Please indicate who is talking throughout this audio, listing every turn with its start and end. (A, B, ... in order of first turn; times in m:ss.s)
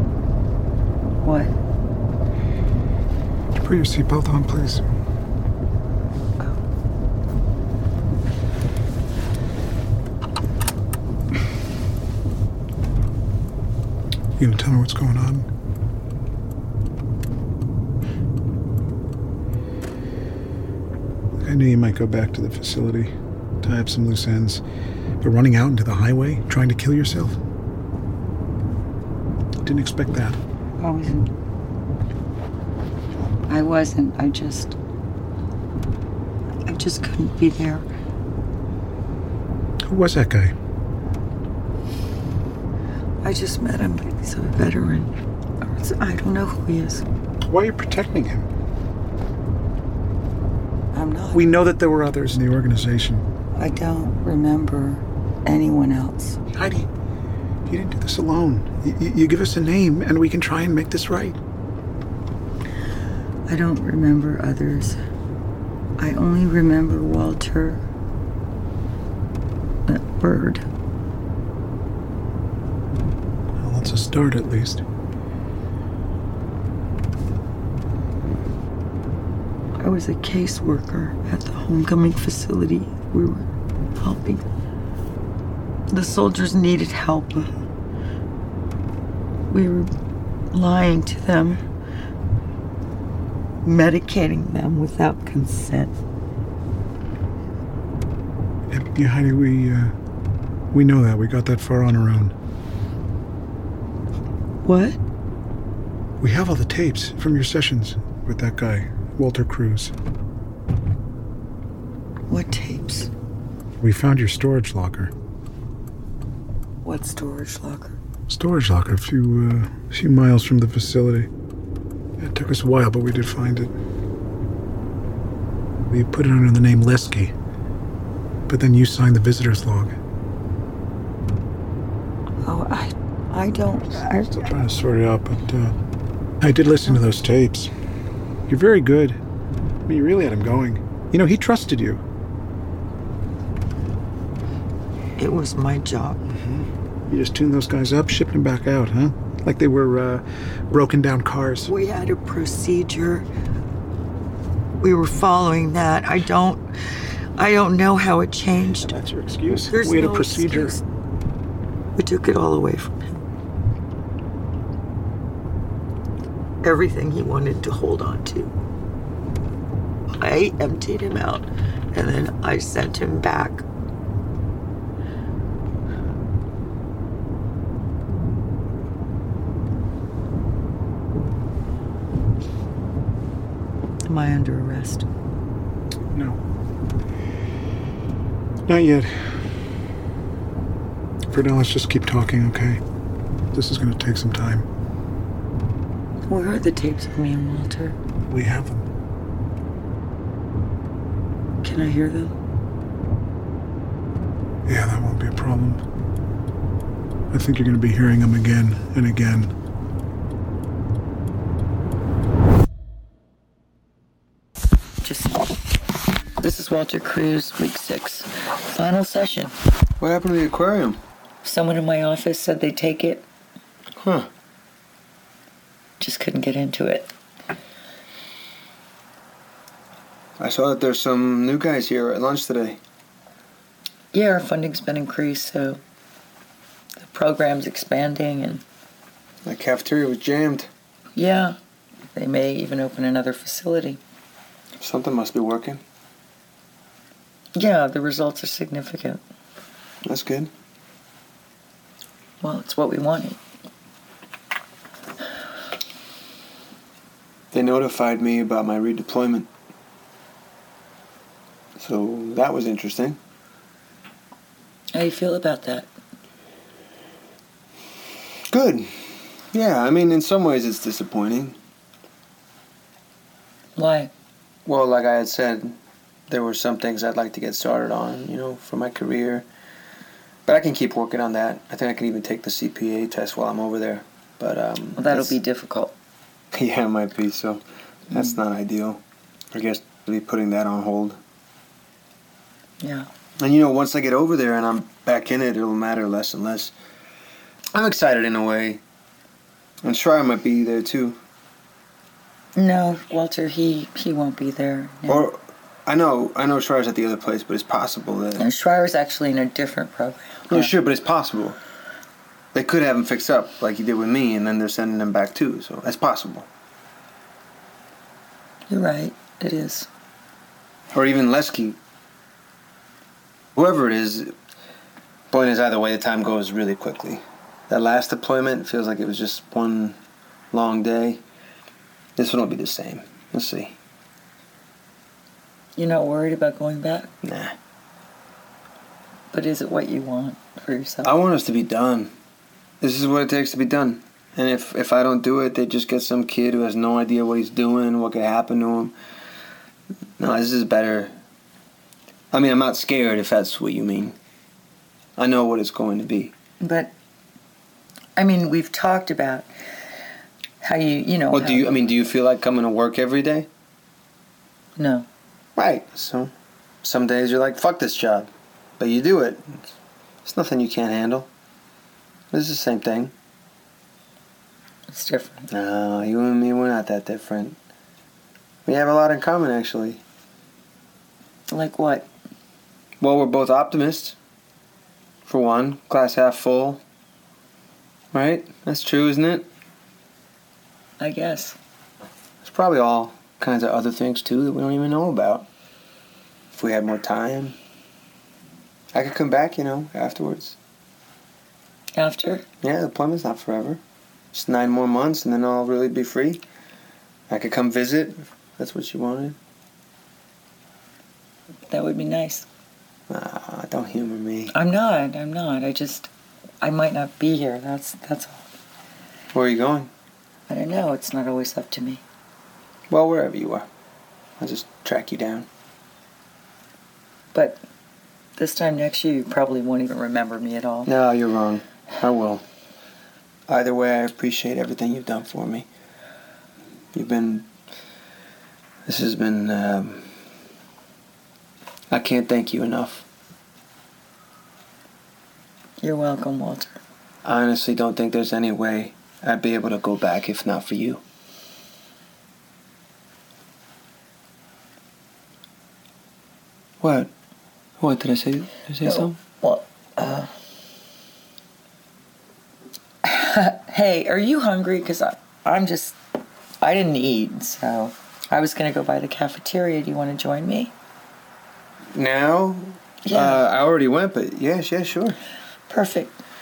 0:01.2-0:01.5 A
0:03.5-0:04.8 B
0:14.4-0:15.5 B
0:21.4-0:24.6 B
0:25.2-0:27.4 B
0:29.6-0:30.4 B
0:30.8-0:31.3 A
0:33.5-0:34.8 A
0:36.7-0:37.9 A
0:39.9-0:40.5 B
0:43.2-0:47.0 A
0:47.5-0:48.5 B
0:50.9-0:51.5 A
0:51.3-0:53.2 B
0:53.6-0:56.4 A
0:56.5-0:56.9 B
0:57.7-1:01.4 B
1:03.5-1:05.0 A
1:06.0-1:07.8 A
1:09.9-1:10.7 A
1:13.6-1:14.8 B
1:19.8-1:24.4 A
1:25.9-1:27.5 A
1:29.5-1:29.9 A
1:30.5-1:31.6 A
1:33.6-1:36.0 A
1:38.7-1:39.9 B
1:40.7-1:42.3 B
1:44.6-1:45.0 A
1:46.2-1:49.9 B
1:52.3-1:53.1 A
1:53.8-1:55.1 B
1:56.8-1:58.0 A
1:58.3-2:01.3 B
2:02.2-2:03.7 B
2:05.9-2:07.3 B
2:08.5-2:10.0 B
2:12.4-2:14.4 A
2:14.2-2:15.7 B
2:16.4-2:17.7 B
2:18.5-2:19.2 B
2:19.9-2:22.0 B
2:25.2-2:26.2 A
2:26.3-2:31.7 B
2:31.7-2:33.3 A
2:34.8-2:36.6 A
2:37.4-2:39.0 A
2:38.8-2:40.8 B
2:39.6-2:40.8 A
2:42.0-2:43.2 A
2:46.6-2:48.5 A
2:50.2-2:53.7 A
3:04.0-3:05.1 A
3:06.1-3:06.4 B
3:08.7-3:09.5 B
3:11.3-3:12.8 B
3:13.5-3:14.7 B
3:16.3-3:18.0 A
3:18.3-3:18.9 B
3:21.6-3:22.4 A
3:24.7-3:25.8 B
3:27.3-3:29.5 B
3:35.0-3:35.5 A
3:36.4-3:39.5 A
3:40.0-3:41.0 C
3:41.4-3:43.3 A
3:44.0-3:44.3 C
3:46.0-3:47.1 A
3:50.4-3:52.8 C
3:54.1-3:55.8 A
3:57.0-3:58.6 A
3:59.4-4:00.7 C
4:01.2-4:01.6 A
4:02.1-4:04.0 A
4:04.8-4:05.8 C
4:07.6-4:09.2 A
4:10.0-4:10.5 C
4:12.4-4:13.4 A
4:17.5-4:19.5 C
4:21.8-4:23.2 C
4:24.9-4:25.9 A
4:28.5-4:31.6 C
4:33.8-4:34.1 A
4:34.7-4:35.8 C
4:36.3-4:39.5 C
4:40.5-4:45.4 C
4:45.0-4:46.0 A
4:46.5-4:49.0 C
4:49.5-4:51.2 C
4:52.8-4:53.1 A
4:53.4-4:56.7 C
4:57.7-4:58.8 C
4:59.8-5:01.2 C
5:02.6-5:05.3 A
5:05.1-5:08.4 C
5:08.4-5:10.7 A
5:10.5-5:11.6 C
5:12.5-5:16.5 C
5:18.7-5:19.9 A
5:20.9-5:21.8 C
5:23.6-5:24.3 C
5:25.3-5:30.0 C
5:30.5-5:31.2 C
5:32.2-5:33.8 C
5:35.8-5:37.1 A
5:37.2-5:37.6 C
5:39.3-5:41.1 A
5:41.0-5:42.1 C
5:42.8-5:48.9 C
5:50.2-5:51.1 C
5:52.3-5:54.2 C
5:55.2-5:56.3 C
5:56.6-5:56.9 A
5:58.2-5:59.5 A
6:00.6-6:01.6 A
6:01.3-6:03.5 C
6:04.8-6:05.1 A
6:05.6-6:06.3 C
6:06.8-6:09.7 C
6:10.2-6:11.3 C
6:12.3-6:13.1 C
6:14.9-6:15.5 A
6:15.5-6:17.6 C
6:18.7-6:20.0 C
6:21.5-6:22.1 A
6:23.0-6:24.2 C
6:25.3-6:26.8 C
6:28.1-6:29.5 C
6:31.0-6:31.6 A
6:32.4-6:35.5 C
6:36.5-6:37.6 C
6:38.9-6:40.6 C
6:42.0-6:42.5 A
6:42.6-6:43.8 C
6:44.3-6:46.4 C
6:47.3-6:49.4 C
6:51.7-6:52.5 A
6:53.1-6:54.5 C
6:54.5-6:56.1 A
6:56.6-6:58.4 A
6:59.3-6:59.9 C
7:00.5-7:02.0 A
7:02.9-7:03.7 C
7:04.4-7:05.5 C
7:07.3-7:07.6 A
7:08.4-7:10.9 A
7:10.9-7:12.4 C
7:13.5-7:15.7 C
7:16.9-7:17.5 C
7:18.9-7:20.1 C
7:21.9-7:23.0 C
7:25.8-7:26.8 A
7:27.2-7:31.0 C
7:36.8-7:37.1 C
7:37.8-7:39.2 C
7:38.8-7:40.3 A
7:43.0-7:46.0 A
7:46.6-7:50.7 A
7:51.9-7:55.2 C
7:53.0-7:53.4 A
7:55.7-7:56.2 A